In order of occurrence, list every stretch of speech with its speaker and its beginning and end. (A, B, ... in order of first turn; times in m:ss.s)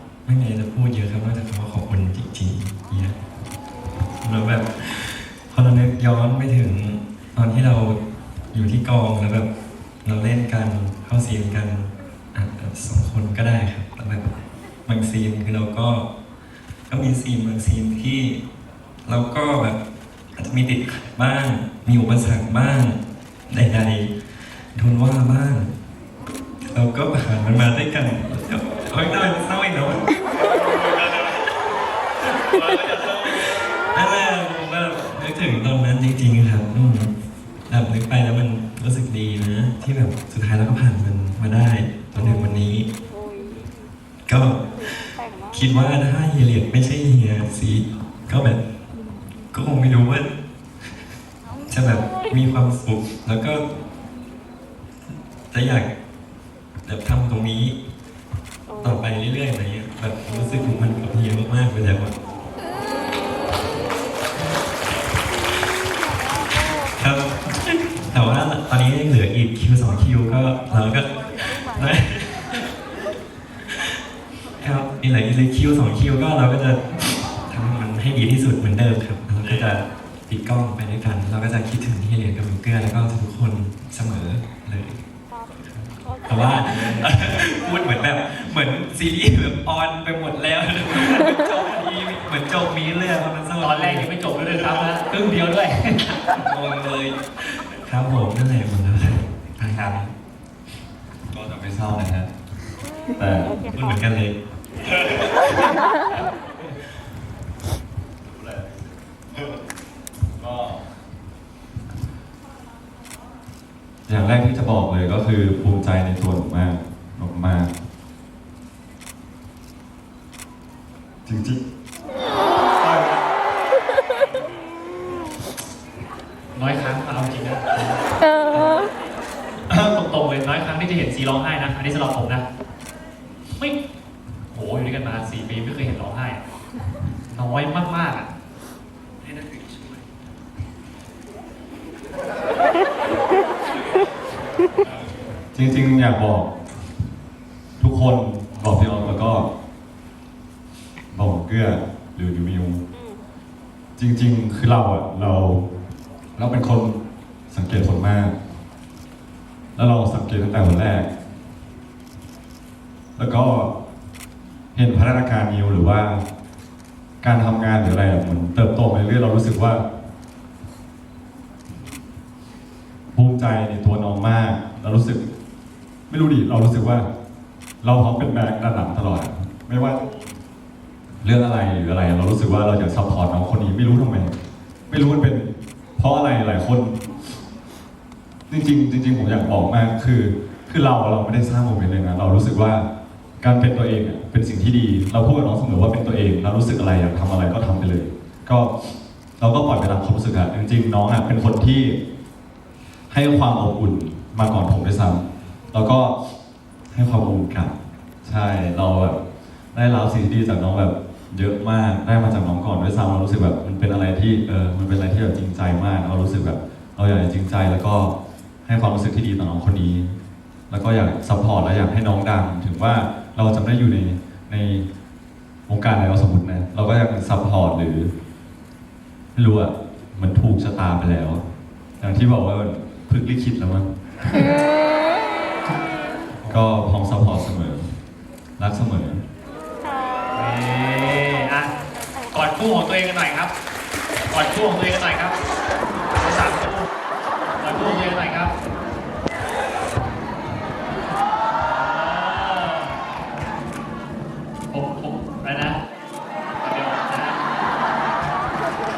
0:00.2-0:03.1 A
0:04.2-0:08.0 A
0:08.5-0:09.5 A
0:10.0-0:14.3 A
0:14.8-0:16.1 A
0:16.9-0:18.4 A
0:19.0-0:19.8 A
0:20.3-0:23.0 A
0:23.5-0:24.1 A
0:24.7-0:25.7 A
0:26.6-0:30.2 A
0:30.4-0:31.2 B
0:32.5-0:33.5 B
0:33.2-0:37.1 A
0:37.7-0:42.8 A
0:44.3-0:48.6 A
0:49.5-0:50.3 A
0:51.7-0:53.6 A
0:55.5-0:55.9 A
0:56.8-0:57.8 A
0:58.8-1:02.1 A
1:06.9-1:12.7 A
1:14.6-1:25.0 A
1:19.4-1:19.7 C
1:26.2-1:34.8 A
1:33.6-1:36.2 C
1:36.3-1:40.1 A
1:41.3-1:42.3 B
1:43.2-1:43.5 B
1:43.7-1:44.4 A
1:45.0-1:45.4 B
1:48.2-1:49.6 B
1:50.4-1:50.9 B
1:54.1-1:57.7 B
2:01.2-2:01.6 B
2:02.8-2:03.1 C
2:06.5-2:08.0 C
2:08.5-2:08.8 C
2:09.7-2:12.4 C
2:14.5-2:16.4 C
2:17.3-2:18.3 C
2:25.5-2:26.5 B
2:27.8-2:29.5 B
2:31.1-2:32.8 B
2:34.0-2:35.6 B
2:36.4-2:37.0 B
2:37.5-2:38.3 B
2:39.8-2:41.1 B
2:43.2-2:43.7 B
2:44.7-2:46.2 B
2:47.2-2:49.8 B
2:53.1-2:55.2 B
2:56.1-2:57.0 B
2:57.8-3:00.1 B
3:01.2-3:04.3 B
3:04.9-3:07.0 B
3:08.5-3:12.8 B
3:13.4-3:22.0 B
3:23.1-3:26.2 B
3:26.9-3:27.7 B
3:28.2-3:29.2 B
3:29.7-3:38.1 B
3:38.6-3:40.1 B
3:40.7-3:44.8 B
3:45.7-3:48.1 B
3:49.3-3:51.4 B
3:52.0-3:53.9 B
3:56.3-3:56.6 C
3:56.5-3:57.9 B
3:58.6-3:59.2 B
4:00.3-4:01.7 C
4:02.3-4:03.5 C
4:04.3-4:05.4 C
4:06.1-4:06.9 C
4:07.6-4:08.5 C
4:11.6-4:13.0 C
4:14.7-4:15.8 C
4:16.6-4:17.4 C